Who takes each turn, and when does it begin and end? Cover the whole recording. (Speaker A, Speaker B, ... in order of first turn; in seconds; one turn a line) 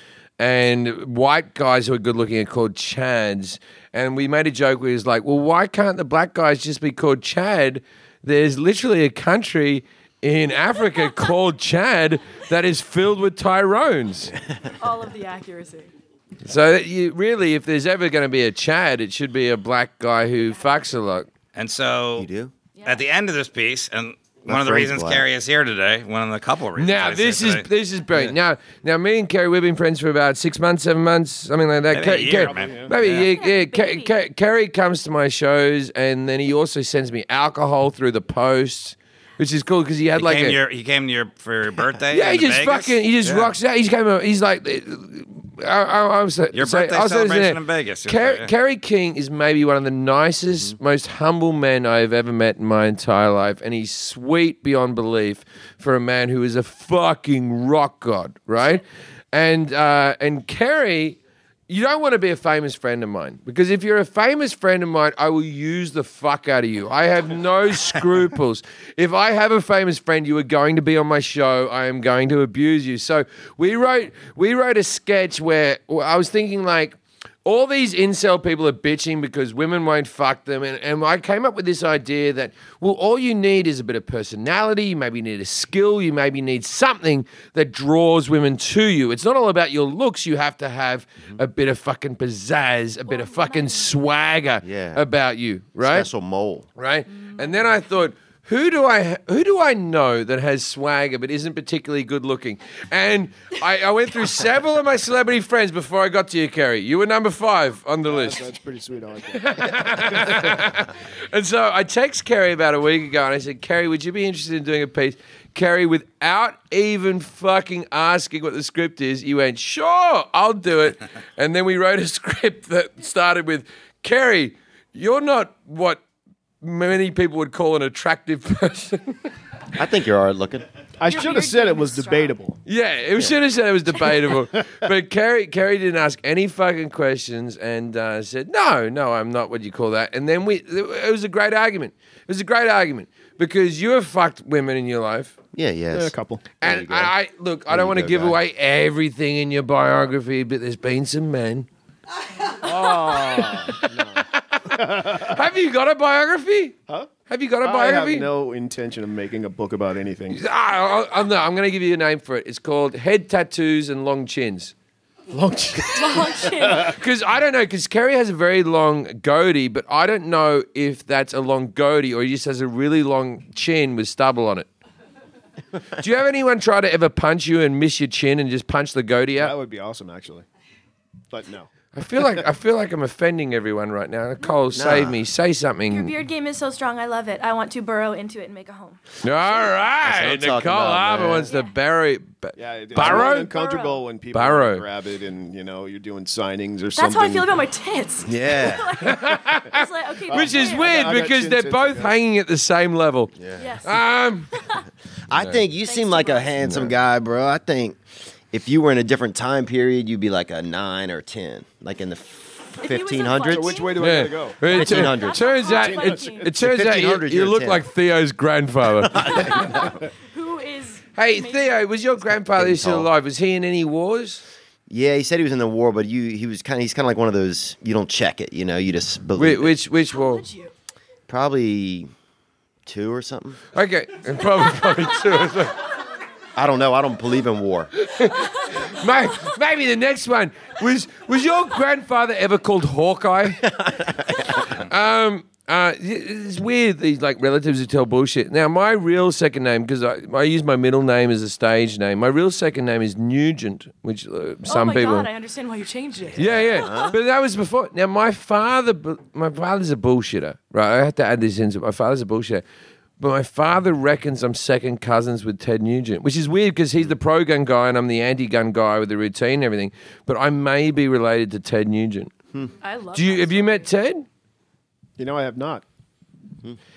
Speaker A: 0.4-14.3
Speaker B: 14.8-15.9
Speaker A: 16.4-21.3
Speaker C: 21.5-22.3
Speaker D: 22.1-22.5
Speaker B: 22.8-23.0
Speaker C: 22.8-27.6
Speaker D: 24.4-25.2
Speaker A: 26.8-40.6
Speaker C: 31.9-33.3
Speaker E: 32.4-32.9
Speaker B: 33.3-34.1
Speaker C: 40.1-43.0
Speaker A: 42.1-96.1
Speaker D: 43.2-43.5
Speaker C: 46.5-48.5
Speaker B: 93.0-93.9
Speaker D: 94.6-95.0
Speaker D: 95.8-96.7
Speaker A: 96.8-108.4
Speaker B: 97.2-97.6
Speaker E: 108.1-110.6
Speaker A: 109.3-126.0
Speaker A: 126.6-129.3
Speaker D: 129.7-130.7
Speaker E: 131.0-132.6
Speaker B: 131.1-132.3
Speaker A: 132.6-145.3
Speaker D: 145.5-147.1
Speaker E: 145.9-146.4
Speaker A: 146.6-151.7
Speaker D: 147.7-148.4
Speaker E: 152.6-155.4
Speaker A: 152.6-156.8
Speaker A: 157.3-158.3
Speaker E: 157.6-160.4
Speaker A: 160.3-164.7
Speaker A: 165.3-174.7
Speaker B: 165.9-167.0
Speaker A: 176.0-179.5
Speaker E: 179.4-180.4
Speaker E: 181.3-181.7
Speaker A: 181.9-186.1
Speaker D: 184.7-185.2
Speaker B: 185.9-189.0
Speaker A: 189.2-193.5
Speaker D: 190.0-191.5
Speaker B: 191.4-191.8
Speaker E: 192.6-197.6
Speaker B: 193.0-194.0
Speaker A: 194.3-194.8
Speaker B: 196.9-200.9
Speaker D: 198.2-199.0
Speaker A: 199.0-204.5
Speaker E: 200.3-202.1
Speaker D: 203.4-203.7
Speaker B: 203.6-204.9
Speaker D: 205.3-208.0
Speaker B: 205.8-206.6
Speaker A: 206.6-206.9
Speaker D: 208.5-213.8
Speaker B: 212.8-216.5
Speaker E: 213.4-214.7
Speaker A: 214.0-219.5
Speaker D: 214.7-215.8
Speaker E: 215.8-216.4
Speaker D: 216.5-217.8
Speaker D: 219.0-219.9
Speaker B: 219.2-221.8
Speaker A: 221.2-224.4
Speaker D: 222.5-223.1
Speaker D: 224.9-229.8
Speaker A: 229.4-230.4
Speaker B: 230.1-230.7
Speaker D: 231.3-232.1
Speaker D: 232.8-233.6
Speaker A: 233.7-235.8
Speaker D: 236.6-237.9
Speaker A: 238.0-243.7
Speaker D: 243.7-244.6
Speaker A: 244.6-255.3
Speaker B: 254.7-257.1
Speaker D: 256.4-257.1
Speaker A: 256.4-262.6
Speaker A: 263.2-272.3
Speaker B: 272.8-273.9
Speaker A: 273.1-274.2
Speaker E: 275.2-275.8